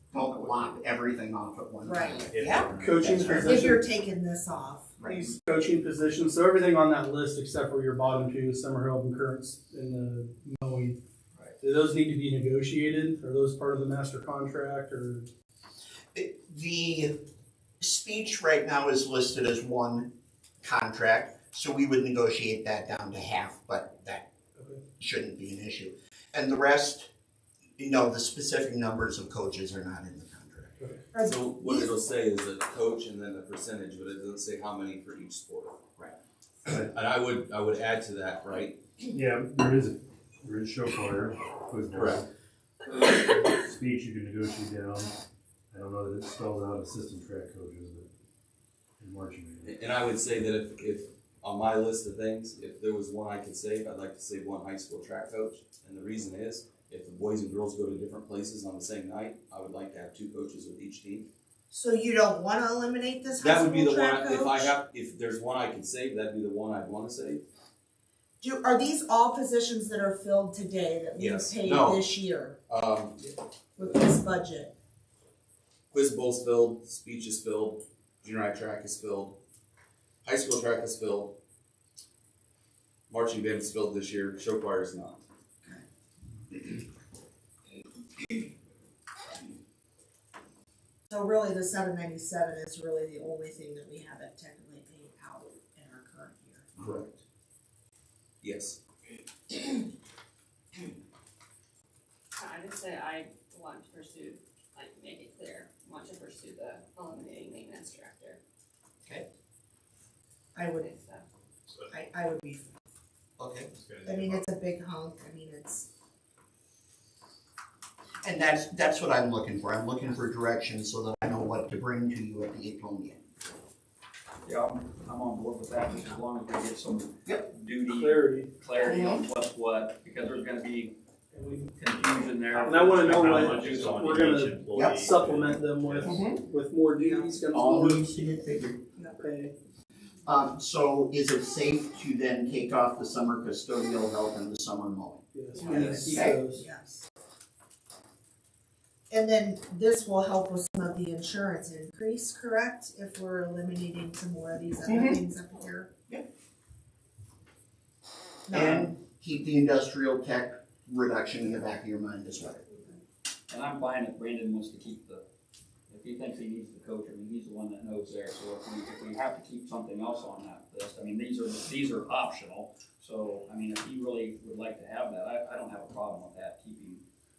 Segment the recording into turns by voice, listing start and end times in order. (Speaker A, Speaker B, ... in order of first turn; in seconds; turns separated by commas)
Speaker A: 0.1-3.8, Speaker B: 1.8-5.0, Speaker C: 2.4-3.0, Speaker D: 2.8-3.8, Speaker E: 5.0-5.3, Speaker D: 5.0-11.0, Speaker D: 11.6-15.3, Speaker A: 16.1-17.1, Speaker A: 17.8-20.1, Speaker A: 20.6-24.3, Speaker A: 25.0-27.1, Speaker A: 27.8-30.9, Speaker B: 31.1-31.9, Speaker F: 31.2-35.8, Speaker F: 36.9-38.8, Speaker G: 39.1-42.3, Speaker F: 41.9-42.2, Speaker G: 43.0-45.1, Speaker G: 45.7-48.1, Speaker G: 49.0-49.7, Speaker F: 49.6-61.3, Speaker B: 61.7-64.7, Speaker F: 63.4-67.4, Speaker B: 68.4-72.5, Speaker F: 71.2-72.1, Speaker F: 72.7-73.3, Speaker B: 73.8-74.7, Speaker F: 75.9-79.3, Speaker F: 80.2-81.3, Speaker F: 83.1-85.2, Speaker B: 91.1-97.0, Speaker F: 96.8-97.0, Speaker F: 98.4-98.8, Speaker H: 102.4-108.4, Speaker B: 110.5-110.9, Speaker H: 110.7-111.2, Speaker B: 111.9-112.7, Speaker A: 113.4-113.7, Speaker C: 113.7-114.3, Speaker B: 114.0-115.9, Speaker A: 118.2-123.2, Speaker E: 124.4-130.9, Speaker D: 127.9-128.6, Speaker A: 128.8-129.2, Speaker D: 131.3-131.7, Speaker E: 131.8-134.1, Speaker C: 132.5-136.0, Speaker D: 132.6-138.1, Speaker A: 134.7-135.1, Speaker A: 136.1-136.3, Speaker B: 136.9-137.3, Speaker A: 137.5-138.7, Speaker D: 139.2-139.5, Speaker A: 140.2-146.4, Speaker D: 145.3-146.7, Speaker B: 145.7-147.0, Speaker B: 149.1-155.9, Speaker A: 154.9-155.2, Speaker B: 158.5-158.9, Speaker A: 158.5-162.8, Speaker E: 163.5-165.2, Speaker E: 165.9-177.0